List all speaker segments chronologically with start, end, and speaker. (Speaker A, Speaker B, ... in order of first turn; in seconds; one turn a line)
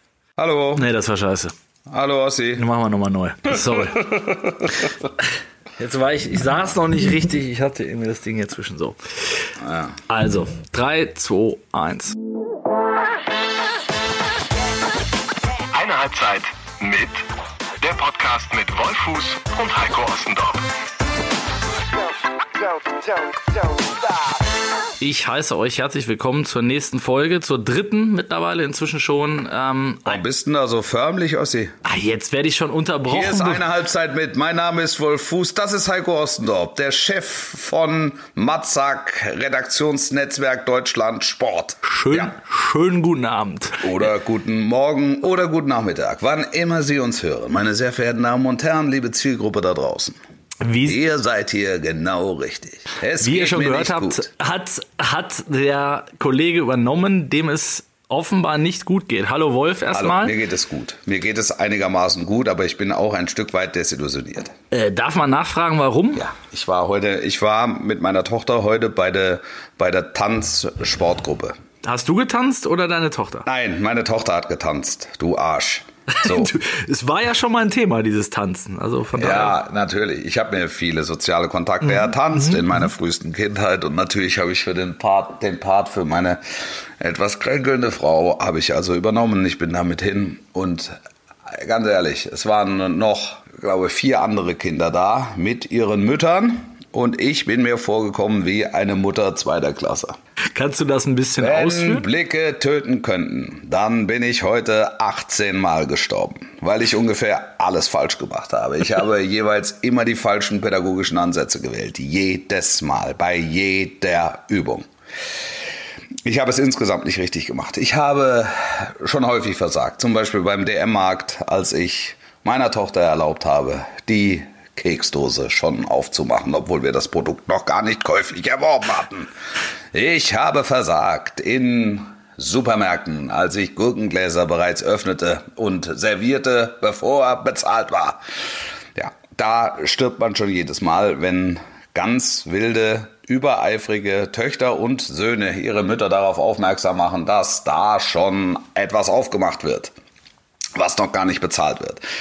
Speaker A: 0.4-0.9
Speaker B: 0.8-1.5
Speaker A: 1.9-2.7
Speaker B: 2.6-4.0
Speaker A: 3.5-5.1
Speaker B: 5.8-9.0
Speaker A: 9.6-9.9
Speaker B: 10.1-12.2
Speaker C: 15.7-17.2
Speaker C: 17.8-20.6
Speaker B: 25.0-30.2
Speaker A: 30.1-31.8
Speaker B: 31.8-33.6
Speaker A: 33.1-42.3
Speaker B: 41.8-43.9
Speaker A: 43.8-50.2
Speaker B: 50.6-51.0
Speaker A: 50.9-54.3
Speaker B: 53.2-60.3
Speaker A: 59.9-64.5
Speaker B: 64.7-66.3
Speaker A: 66.2-71.5
Speaker B: 71.8-73.5
Speaker A: 73.5-76.5
Speaker B: 76.1-79.6
Speaker A: 79.2-100.2
Speaker B: 81.9-82.6
Speaker B: 100.5-102.1
Speaker A: 101.4-114.9
Speaker A: 116.2-129.3
Speaker A: 129.9-138.2
Speaker A: 138.9-149.9
Speaker A: 150.8-152.0